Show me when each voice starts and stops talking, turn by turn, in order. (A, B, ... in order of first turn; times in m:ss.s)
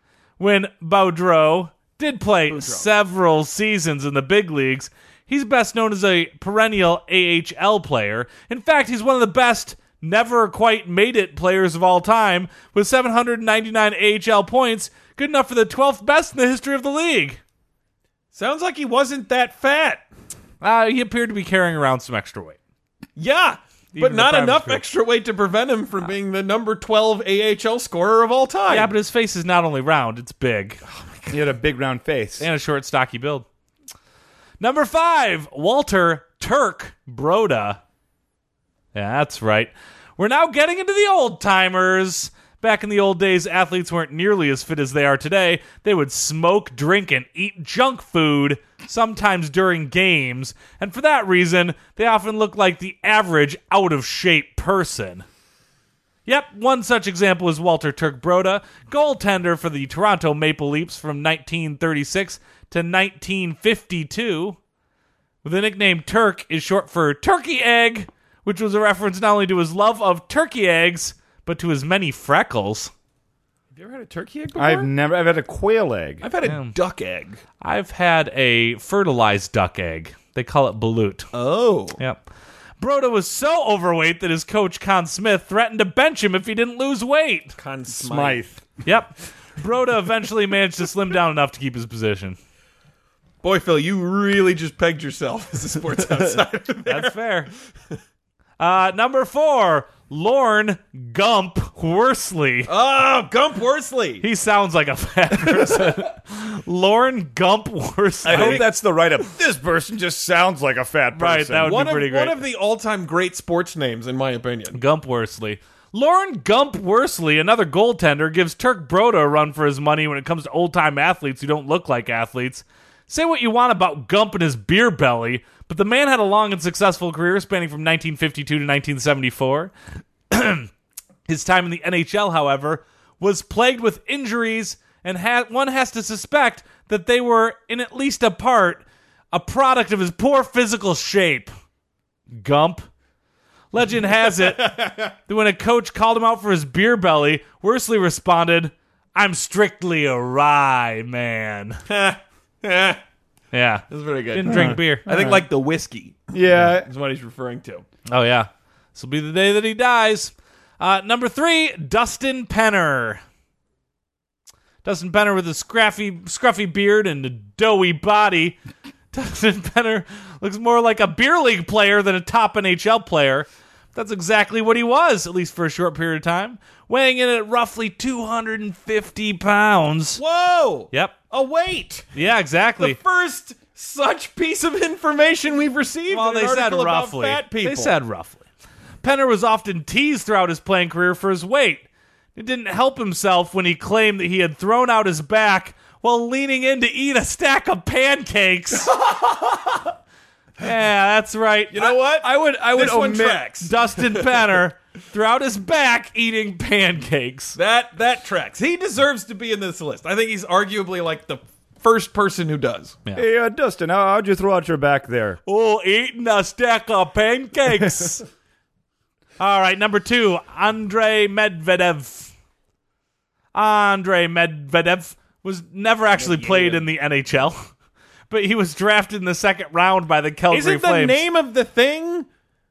0:00.4-0:17.4 A
0:02.5-0:02.9 B
0:18.3-0:20.1 B
0:20.6-0:22.6 A
0:23.2-0:28.9 B
0:23.9-0:24.8 A
0:28.7-0:30.8 A
0:30.9-0:31.4 B
0:31.3-0:32.5 C
0:32.4-0:33.5 A
0:34.6-0:37.8 A
0:38.9-0:55.2 A
0:56.3-1:04.6 A
1:05.4-1:12.9 A
1:13.7-1:14.9 B
1:14.6-1:16.2 C
1:16.2-1:17.4 B
1:16.4-1:16.7 A
1:17.6-1:21.3 A
1:21.3-1:22.0 B
1:22.8-1:27.6 A
1:27.6-1:28.4 B
1:27.9-1:28.7 C
1:28.8-1:32.4 A
1:33.4-1:37.2 B
1:36.9-1:37.5 A
1:38.6-1:42.7 A
1:42.7-1:44.2 B
1:44.2-1:48.7 A
1:48.2-1:51.7 C
1:48.3-1:48.6 B
1:51.2-1:52.4 A
1:51.6-1:54.8 B
1:54.7-2:09.7 A
2:10.3-2:10.7 A
2:11.3-2:21.5 A
2:22.3-2:22.8 A
2:23.7-2:31.8 A
2:24.4-2:25.1 B
2:31.9-2:33.0 B
2:33.5-2:35.1 A
2:33.9-2:37.9 B
2:34.5-2:35.4 C
2:36.3-2:36.9 C
2:38.1-2:43.2 A
2:44.8-2:48.6 A
2:49.1-3:00.2 A
3:00.2-3:02.1 B
3:02.2-3:03.0 A
3:02.8-3:07.9 B
3:06.1-3:08.4 A
3:09.0-3:18.9 A
3:18.9-3:19.8 C
3:20.6-3:21.8 A
3:21.7-3:24.4 B
3:21.8-3:23.4 C
3:23.6-3:27.6 A
3:27.6-3:33.0 B
3:33.1-3:35.4 C
3:35.5-3:38.2 A
3:39.4-3:42.3 A
3:43.5-3:47.6 A
3:46.2-3:46.9 B
3:48.3-3:51.2 A
3:50.5-3:52.3 B